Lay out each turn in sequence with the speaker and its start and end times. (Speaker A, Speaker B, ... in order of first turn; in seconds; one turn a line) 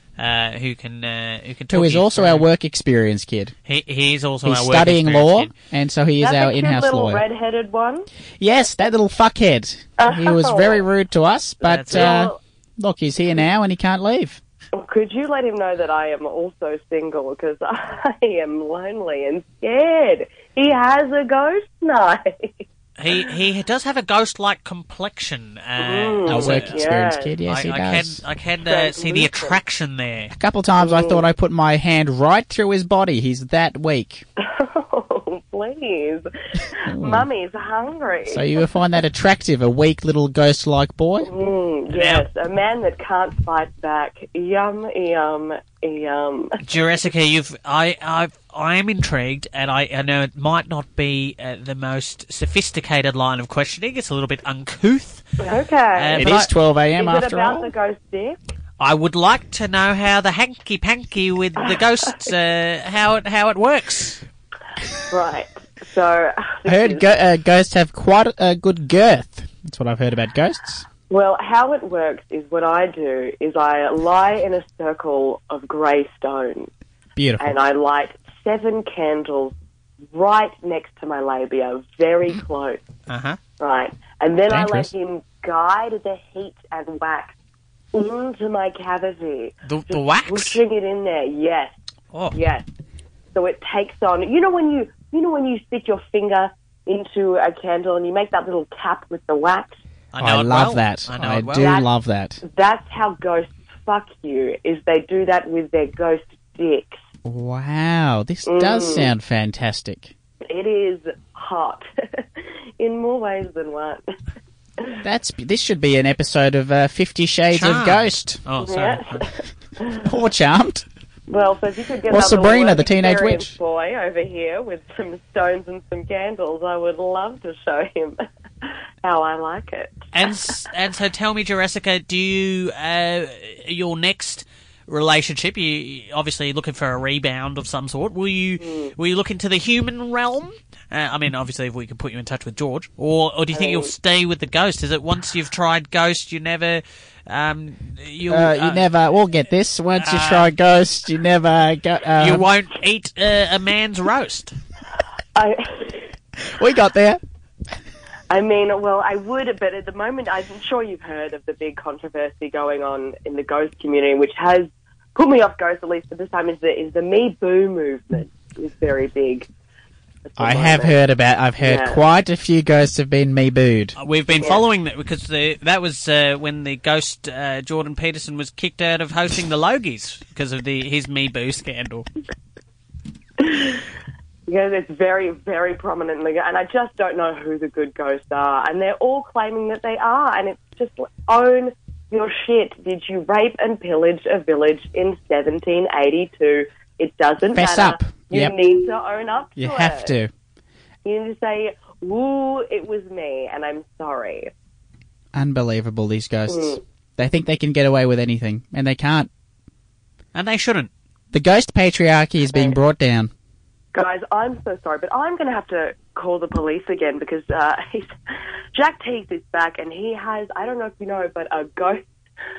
Speaker A: 0.2-2.5
Speaker B: 1.7-3.5
Speaker A: 3.6-5.5
Speaker B: 4.4-7.2
Speaker C: 6.2-8.1
Speaker B: 8.4-14.4
Speaker C: 10.0-10.8
Speaker A: 11.6-12.2
Speaker C: 11.9-12.4
Speaker C: 14.7-23.3
Speaker A: 23.0-26.8
Speaker C: 25.8-27.3
Speaker B: 26.3-28.2
Speaker A: 27.5-30.3
Speaker C: 28.6-29.6
Speaker B: 30.3-34.2
Speaker C: 30.8-31.2
Speaker C: 34.4-38.6
Speaker B: 36.9-37.3
Speaker B: 38.3-41.3
Speaker C: 41.2-46.6
Speaker A: 41.9-42.2
Speaker A: 46.6-55.2
Speaker C: 55.4-58.4
Speaker A: 56.0-56.5
Speaker B: 56.1-57.7
Speaker A: 58.8-64.2
Speaker C: 65.1-67.1
Speaker B: 66.7-70.8
Speaker C: 71.1-76.7
Speaker B: 77.2-77.5
Speaker C: 77.4-79.5
Speaker C: 80.1-82.8
Speaker A: 83.1-83.4
Speaker C: 83.6-87.3
Speaker B: 84.5-84.9
Speaker C: 87.9-91.7
Speaker A: 89.6-90.6
Speaker C: 92.3-92.7
Speaker C: 93.3-99.8
Speaker A: 100.1-101.7
Speaker B: 100.2-102.4
Speaker C: 101.6-101.9
Speaker C: 102.4-107.0
Speaker B: 107.2-110.1
Speaker C: 108.5-109.1
Speaker C: 110.5-114.1
Speaker B: 115.0-118.4
Speaker A: 117.5-119.2
Speaker C: 118.6-120.1
Speaker B: 120.0-120.8
Speaker C: 121.3-130.1
Speaker B: 122.1-123.5
Speaker A: 130.1-148.9
Speaker C: 138.6-138.9
Speaker C: 143.5-143.9
Speaker B: 148.3-152.4
Speaker A: 150.0-150.5
Speaker A: 152.2-154.5
Speaker C: 155.3-156.1
Speaker B: 156.4-157.2
Speaker C: 158.3-169.5
Speaker C: 170.3-171.0
Speaker B: 170.4-173.9
Speaker C: 171.6-172.0
Speaker A: 174.0-182.1
Speaker C: 183.4-183.8
Speaker C: 184.5-200.1
Speaker B: 197.5-198.5
Speaker B: 199.6-200.3
Speaker C: 201.0-204.5
Speaker B: 205.3-209.3
Speaker C: 206.5-206.8
Speaker A: 210.3-210.9
Speaker B: 211.3-213.3
Speaker C: 212.5-212.8
Speaker C: 213.9-218.1
Speaker C: 218.7-222.0